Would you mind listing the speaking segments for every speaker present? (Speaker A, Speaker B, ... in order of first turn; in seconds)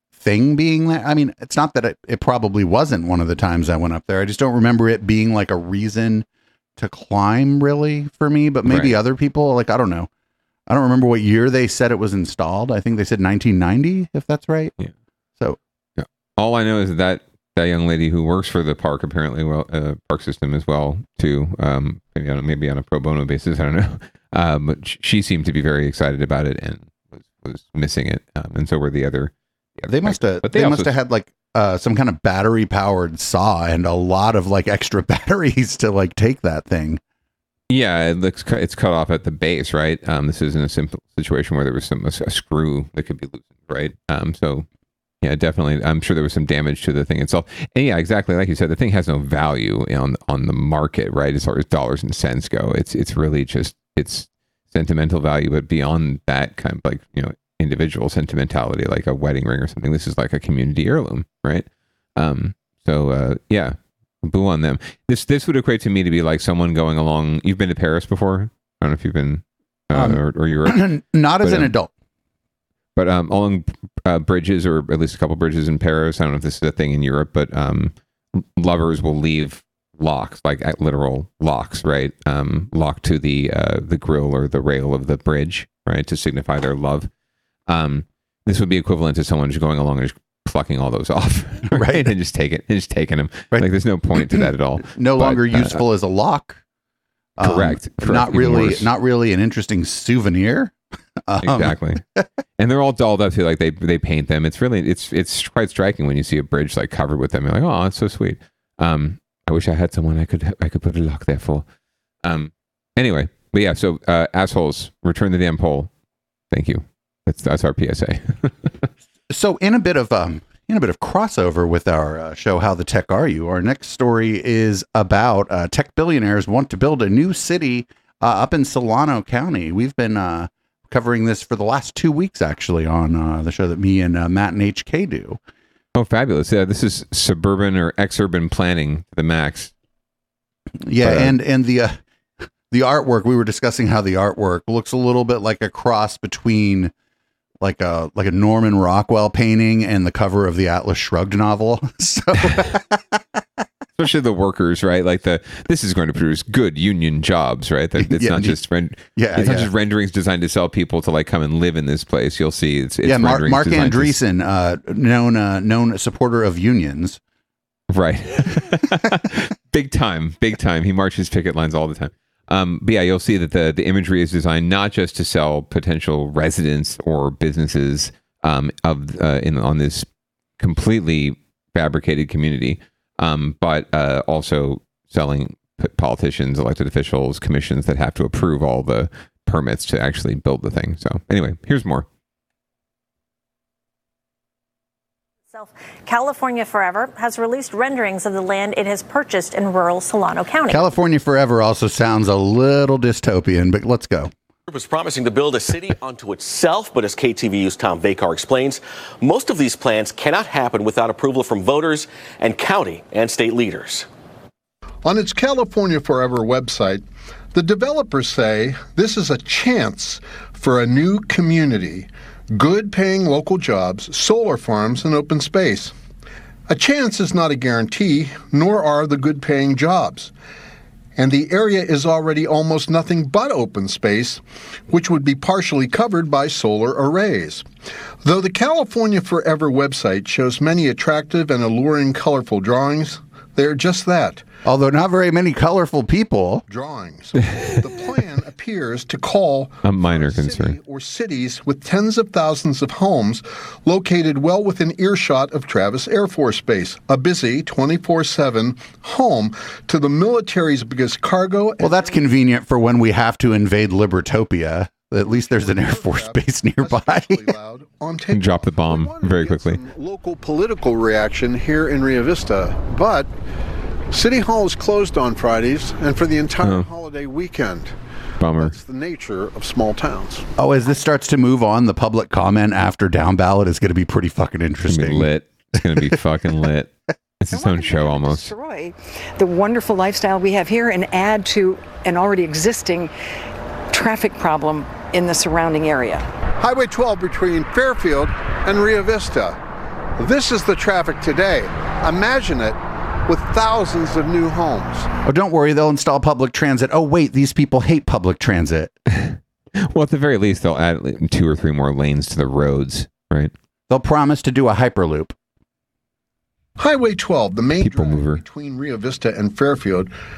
Speaker A: 0.2-6.3, 6.8-10.1, 10.7-14.7, 29.9-37.0, 69.9-71.9, 91.7-92.1, 93.5-96.6, 97.4-100.8, 101.3-102.3, 119.3-135.4, 140.9-142.0, 142.7-146.9, 147.6-153.2, 158.0-158.6, 159.2-159.7, 163.1-167.2, 200.7-204.3, 244.7-246.6, 261.8-267.5, 280.6-285.3, 305.2-308.9, 313.9-315.3
Speaker B: 8.7-9.0, 16.0-30.9, 37.7-44.7, 45.2-71.7, 73.0-87.1, 87.7-95.8, 97.4-98.9, 101.4-102.0, 102.6-111.7, 112.2-115.9, 116.5-118.9, 136.0-139.7, 141.0-141.4, 154.0-164.2, 167.9-180.1, 180.6-192.1, 249.8-250.8, 268.3-269.8, 278.4-278.8, 284.9-288.5, 309.1-313.5, 317.8-318.4
Speaker C: 195.5-200.8
Speaker D: 204.7-214.1
Speaker E: 215.0-225.9, 226.7-230.3, 231.2-237.7, 238.2-244.4, 246.7-262.2, 265.3-273.3, 274.1-277.9, 278.6-280.5, 296.6-299.6, 300.2-305.1, 316.8-320.1
Speaker F: 287.5-293.1, 293.9-296.3